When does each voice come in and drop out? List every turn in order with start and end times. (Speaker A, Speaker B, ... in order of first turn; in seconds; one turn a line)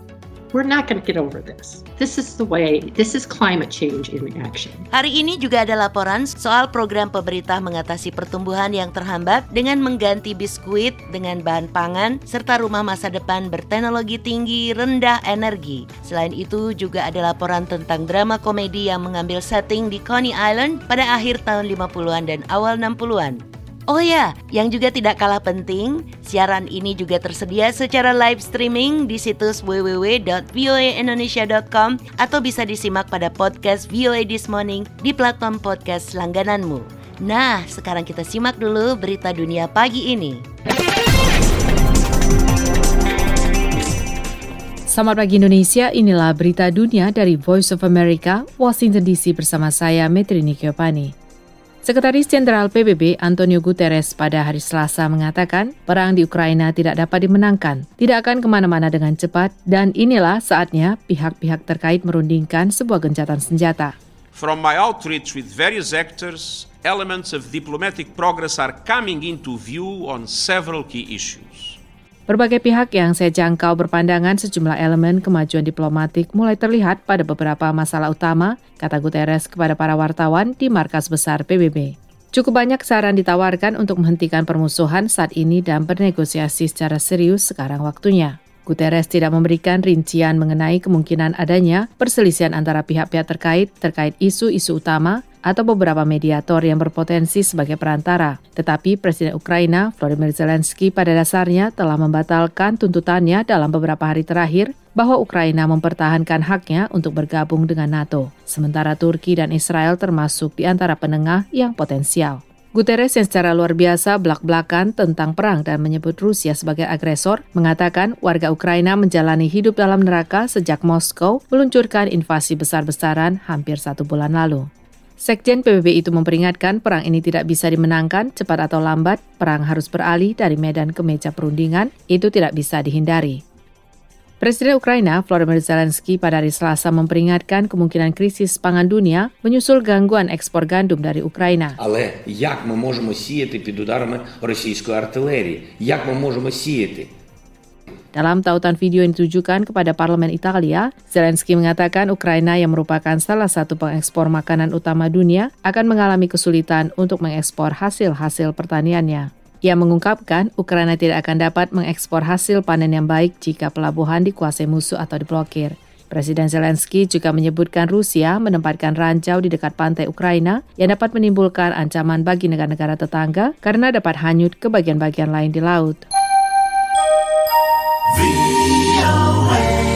Speaker A: 0.5-4.8
Speaker B: 4.9-40.4
Speaker C: 44.9-51.1
Speaker C: 51.8-64.0
Speaker D: 64.3-71.8
Speaker C: 72.3-124.7
Speaker C: 125.2-133.4
Speaker C: 134.4-141.8
Speaker E: 141.8-147.1
Speaker C: 148.1-176.0
Speaker E: 178.9-179.3